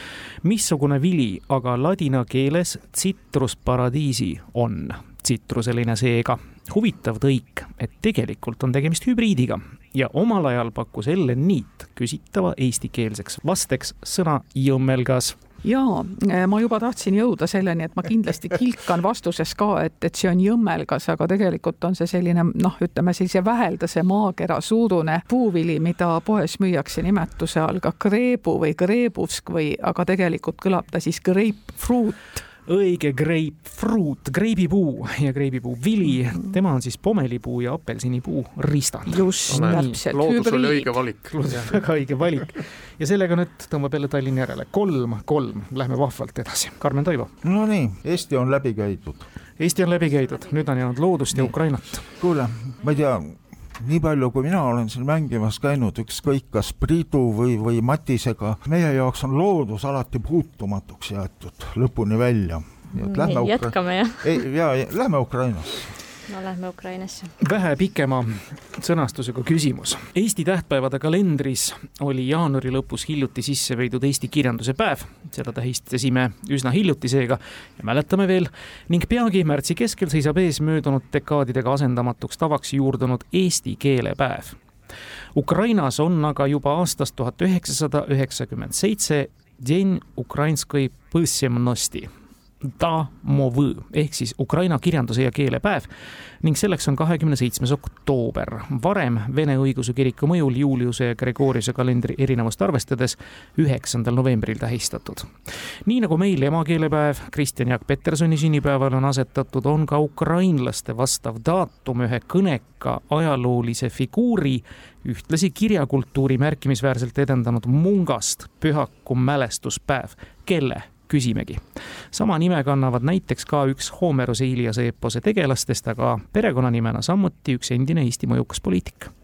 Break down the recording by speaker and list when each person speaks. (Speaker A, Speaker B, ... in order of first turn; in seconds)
Speaker A: 0.4-15.4, 32.7-40.0, 41.3-47.3, 49.6-52.0, 67.4-84.6, 85.3-92.1, 92.6-95.9, 96.4-105.3, 105.8-121.6, 122.1-129.1
Speaker B: 15.6-32.4, 39.1-41.0
Speaker C: 39.5-41.8
Speaker D: 47.4-49.3, 52.1-65.9
Speaker E: 63.0-64.4, 66.3-67.3